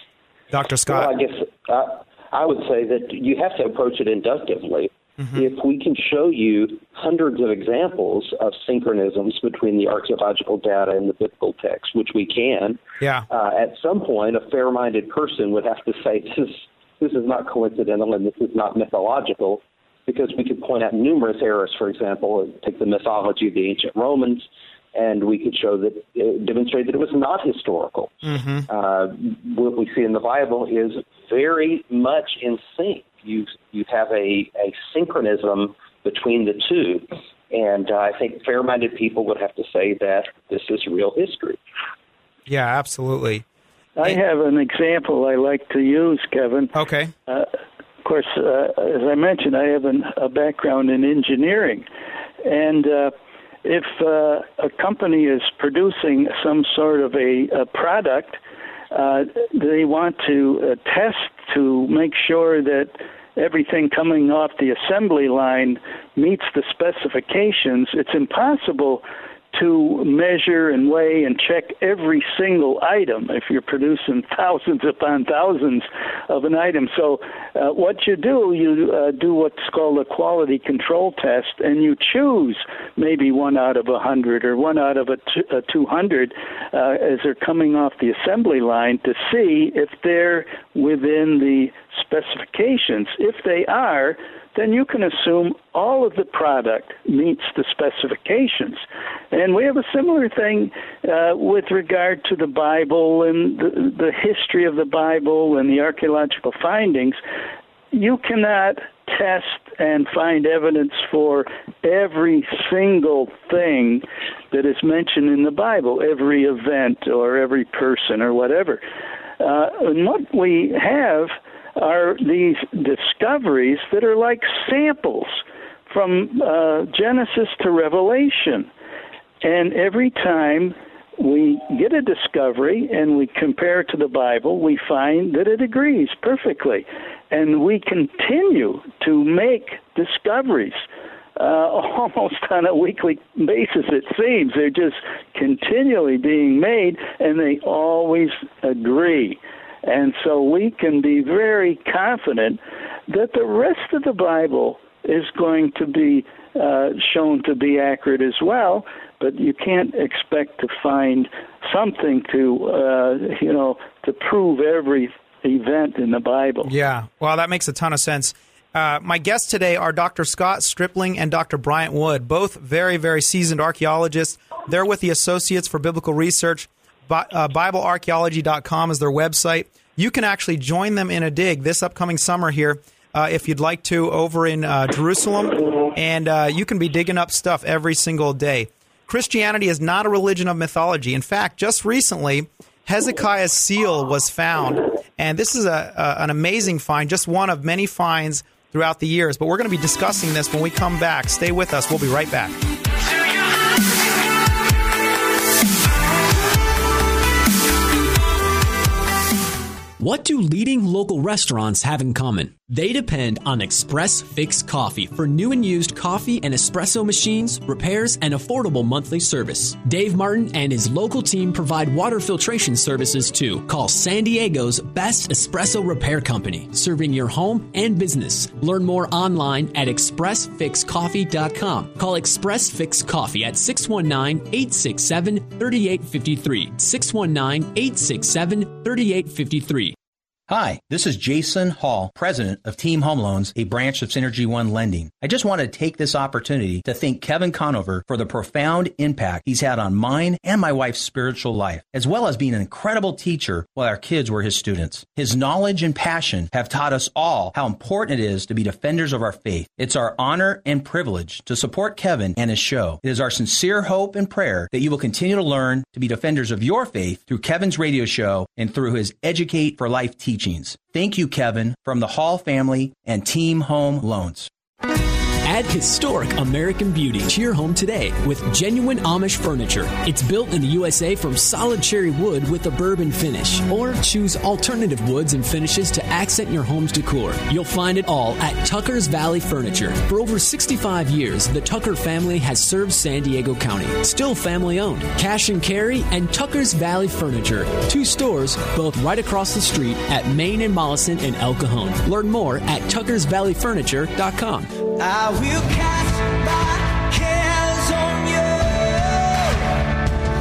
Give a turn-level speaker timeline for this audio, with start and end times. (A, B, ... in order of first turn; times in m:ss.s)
0:00.5-0:01.1 A
0:00.9-0:28.2 B
0:05.2-0:05.4 A
0:13.0-0:13.2 A
0:28.2-0:28.7 A
0:28.7-0:41.6 B
0:42.5-0:43.4 A
0:44.0-0:46.7 C
0:46.7-0:47.1 A
0:48.0-0:51.8 C
0:52.4-0:53.1 C
0:53.6-0:58.4 C
0:58.9-1:47.2 C
1:47.9-1:58.8 C
1:59.4-2:08.7 C
2:09.4-2:20.8 C
2:21.4-2:46.7 C
2:46.6-3:22.6 A
3:30.0-3:59.9 D
4:00.5-4:34.5 E
4:35.4-5:04.7 D
5:04.9-5:09.8 F